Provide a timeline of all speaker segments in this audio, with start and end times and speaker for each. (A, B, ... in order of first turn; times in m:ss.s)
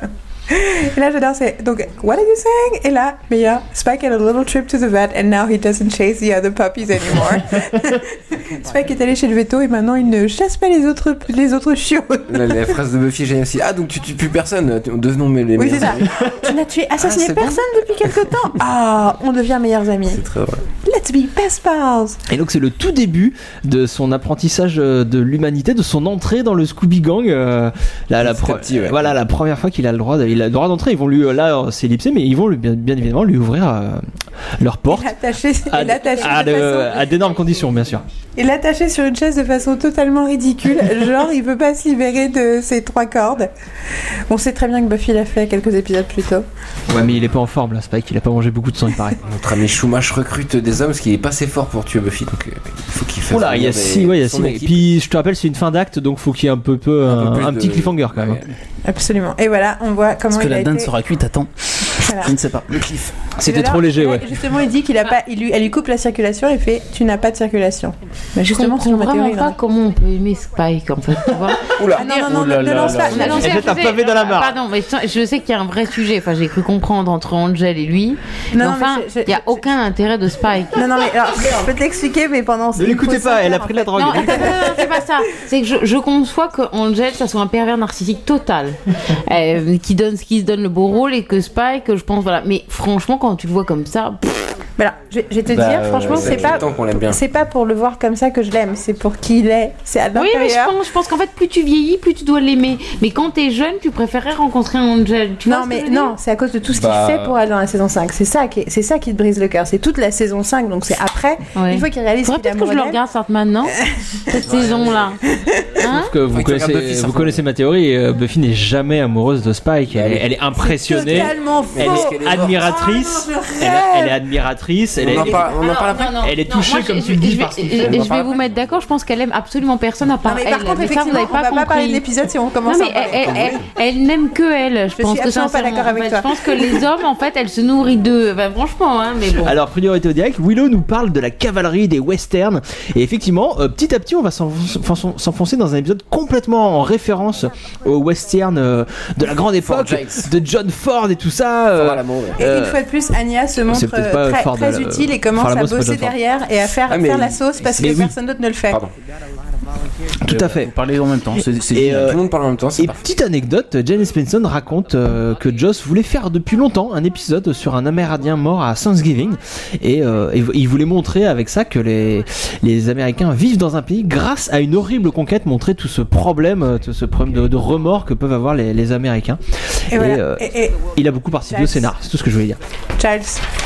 0:00.5-0:12.6 A
0:12.3-0:16.1 B
0:15.6-0:20.2 A
0:17.0-0:17.7 B
0:20.3-0:20.6 B
0:20.8-0:22.2 A
0:22.3-0:34.0 C
0:28.2-0:29.2 B
0:34.6-0:35.1 C
0:34.9-0:37.1 A
0:35.7-0:38.0 C
0:38.4-0:43.5 A
0:44.3-0:46.4 A
0:46.9-0:49.2 C
0:49.2-0:54.9 B
0:53.3-0:58.4 C
0:57.0-0:58.4 B
0:58.8-1:00.9 A
1:00.3-1:01.5 D
1:02.0-1:02.3 A
1:02.1-1:03.0 D
1:03.4-1:04.3 C
1:03.4-1:09.6 A
1:08.5-1:12.3 E
1:11.7-1:12.3 B
1:12.0-1:13.8 A
1:12.2-1:13.5 D
1:13.1-1:20.8 E
1:13.4-1:14.6 C
1:18.5-1:19.7 A
1:20.7-1:24.8 A
1:22.8-1:24.7 C
1:23.9-1:34.5 E
1:34.8-1:40.7 A
1:35.5-1:36.7 D
1:36.0-1:37.2 B
1:40.1-1:46.1 E
1:45.4-1:53.0 A
1:46.7-1:47.3 B
1:51.6-1:53.7 E
1:54.3-1:55.2 E
1:54.4-1:55.2 B
1:55.8-1:56.1 E
1:55.8-2:05.5 C
1:56.3-1:57.4 B
1:59.9-2:02.7 B
2:00.6-2:04.2 A
2:05.0-2:06.2 B
2:05.1-2:12.0 E
2:06.2-2:08.1 C
2:07.8-2:08.4 B
2:10.2-2:13.5 A
2:12.6-2:19.6 E
2:13.0-2:13.6 B
2:15.0-2:16.8 A
2:19.4-2:32.8 C
2:29.2-2:30.3 B
2:31.7-2:32.4 B
2:32.4-2:38.8 A
2:33.7-2:36.2 C
2:36.9-2:38.0 B
2:37.8-2:38.1 C
2:40.2-2:40.7 C
2:40.2-2:42.1 D
2:41.7-2:42.2 C
2:41.9-2:43.0 B
2:42.7-2:59.4 C
2:59.9-3:00.8 A
2:59.9-3:02.6 C
3:01.5-3:01.9 A
3:03.0-3:03.4 A